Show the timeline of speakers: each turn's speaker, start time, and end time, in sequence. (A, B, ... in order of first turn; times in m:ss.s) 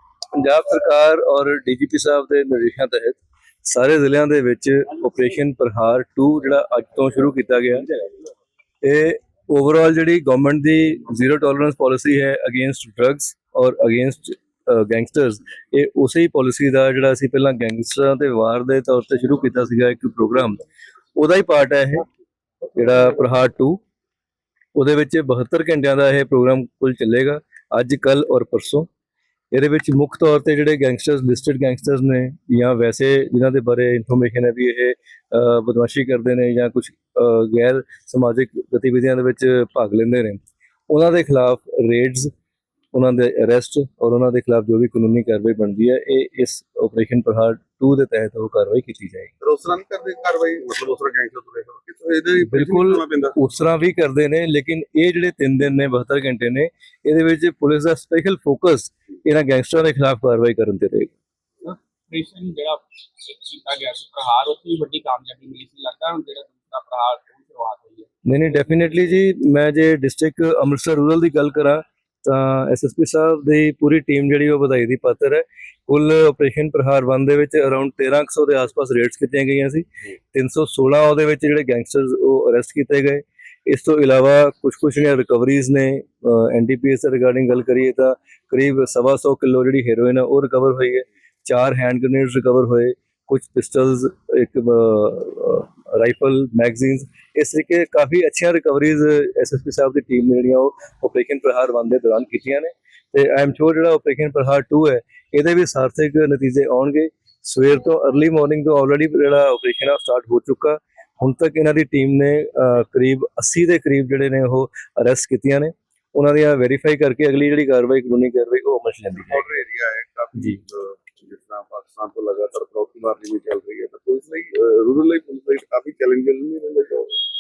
0:00.3-0:07.9 A
0:08.8-0:20.6 A
0:21.2-0:22.1 A
0:22.8-0:23.8 A
0:24.8-0:28.9 A
0:29.5-0:42.3 A
0:42.9-0:49.3 A
0:49.4-0:53.4 B
0:52.4-1:01.1 A
1:01.6-1:08.1 C
1:08.3-1:59.5 A
1:59.3-2:07.2 B